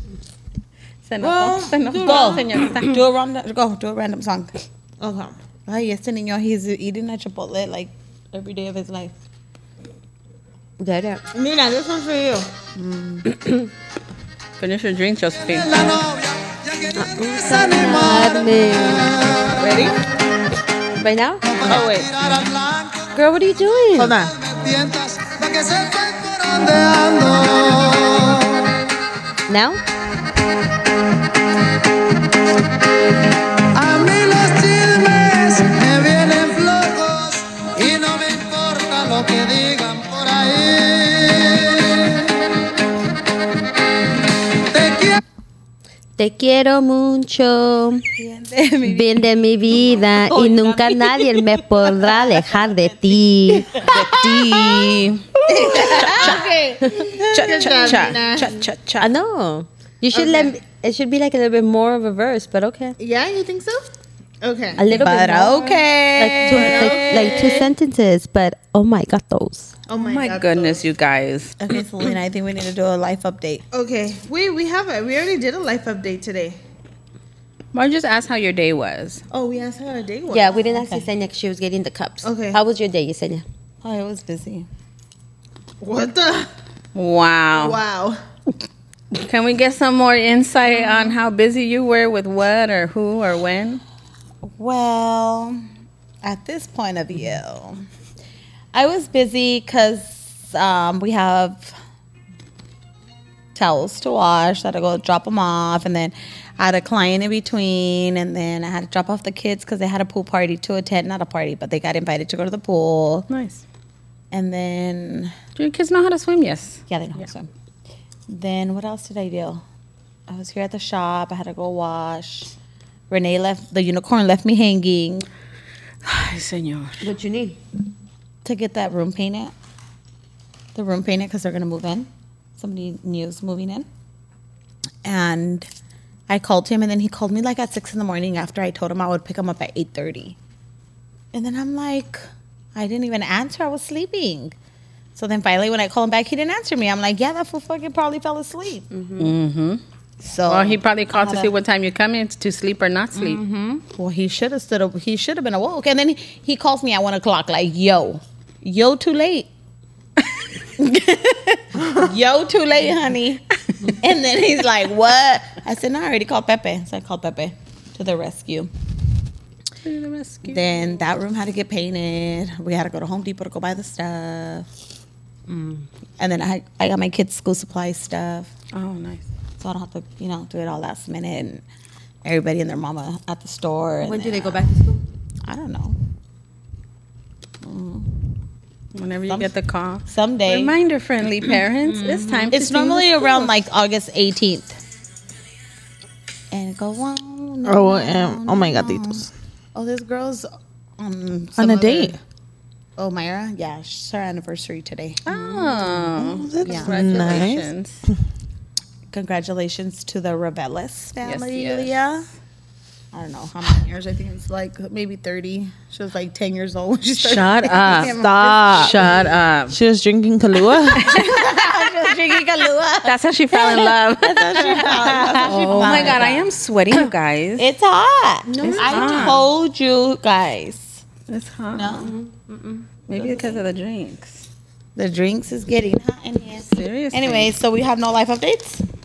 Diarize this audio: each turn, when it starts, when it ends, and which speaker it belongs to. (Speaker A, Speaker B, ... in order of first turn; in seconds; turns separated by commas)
Speaker A: 1.1-3.0, Speaker B: 1.2-2.4, Speaker C: 2.0-4.5, Speaker B: 5.0-5.4, Speaker C: 5.7-9.1, Speaker D: 10.8-11.2, Speaker B: 11.3-12.5, Speaker C: 12.8-13.2, Speaker D: 13.2-13.7, Speaker A: 14.6-15.7, Speaker E: 15.7-19.5, Speaker D: 16.9-19.5, Speaker B: 19.5-20.0, Speaker D: 21.0-21.7, Speaker E: 21.5-23.1, Speaker B: 21.6-22.1, Speaker D: 23.1-24.2, Speaker B: 23.9-24.3, Speaker E: 24.4-28.7, Speaker D: 29.5-29.8, Speaker E: 33.7-42.3, Speaker E: 44.7-45.2, Speaker D: 46.2-48.1, Speaker C: 48.2-54.1, Speaker D: 48.8-53.8, Speaker B: 53.6-54.9, Speaker A: 53.9-56.5, Speaker C: 55.5-56.5, Speaker B: 55.5-58.6, Speaker A: 57.3-59.1, Speaker C: 57.4-57.6, Speaker D: 59.0-63.0, Speaker B: 60.1-60.6, Speaker B: 63.0-63.9, Speaker B: 64.4-64.8, Speaker D: 64.8-69.8, Speaker C: 64.9-67.6, Speaker B: 66.4-67.7, Speaker B: 69.9-70.8, Speaker A: 70.0-71.6, Speaker C: 71.6-73.6, Speaker B: 73.7-76.6, Speaker A: 77.7-79.2, Speaker B: 79.3-80.7, Speaker D: 80.3-83.4, Speaker C: 80.8-81.1, Speaker B: 82.2-82.6, Speaker C: 83.8-84.7, Speaker B: 85.8-86.5, Speaker A: 87.0-87.8, Speaker B: 87.5-88.2, Speaker A: 89.1-93.8, Speaker C: 94.5-95.6, Speaker C: 96.2-97.8, Speaker C: 98.7-101.8, Speaker C: 103.5-113.3, Speaker A: 113.3-113.6, Speaker C: 114.3-115.3, Speaker A: 115.6-116.8, Speaker C: 116.9-117.5, Speaker C: 118.3-119.6, Speaker C: 120.3-122.5, Speaker C: 123.1-125.3, Speaker A: 126.0-127.1, Speaker D: 127.0-127.6, Speaker C: 128.4-129.5, Speaker C: 130.8-133.9, Speaker C: 135.0-135.7, Speaker C: 136.3-140.4, Speaker C: 141.3-142.2, Speaker C: 142.8-144.6, Speaker C: 145.2-148.9, Speaker D: 148.9-149.3, Speaker A: 149.2-149.8, Speaker C: 150.2-151.5, Speaker A: 150.5-153.4, Speaker C: 153.2-159.5, Speaker C: 160.8-168.7, Speaker A: 169.8-170.7, Speaker C: 170.5-174.7, Speaker D: 175.5-175.8, Speaker C: 176.2-178.5, Speaker A: 178.7-179.3, Speaker C: 179.6-181.6, Speaker C: 182.2-184.6, Speaker D: 184.0-185.0, Speaker C: 185.4-186.0, Speaker C: 187.6-188.1, Speaker A: 188.9-193.4, Speaker C: 190.1-190.8, Speaker D: 191.9-192.6, Speaker C: 192.5-194.8, Speaker C: 196.5-202.2, Speaker B: 197.7-199.3, Speaker B: 201.6-202.2, Speaker C: 203.0-205.2, Speaker A: 205.2-208.0, Speaker D: 205.3-206.1, Speaker B: 206.2-207.7, Speaker D: 206.7-206.9, Speaker C: 209.1-212.3, Speaker A: 211.2-212.0, Speaker C: 213.1-219.2, Speaker A: 217.2-218.2, Speaker B: 218.1-219.0, Speaker A: 218.7-219.8, Speaker B: 219.7-221.2, Speaker C: 221.0-226.5, Speaker A: 221.0-221.5, Speaker A: 223.0-224.9, Speaker B: 224.6-226.1, Speaker A: 225.4-227.7, Speaker C: 227.6-231.0, Speaker D: 228.5-229.2, Speaker A: 228.6-229.4, Speaker A: 231.3-232.1, Speaker C: 231.8-232.1, Speaker D: 232.0-233.2, Speaker A: 233.1-234.5, Speaker C: 235.0-238.8, Speaker A: 236.7-237.5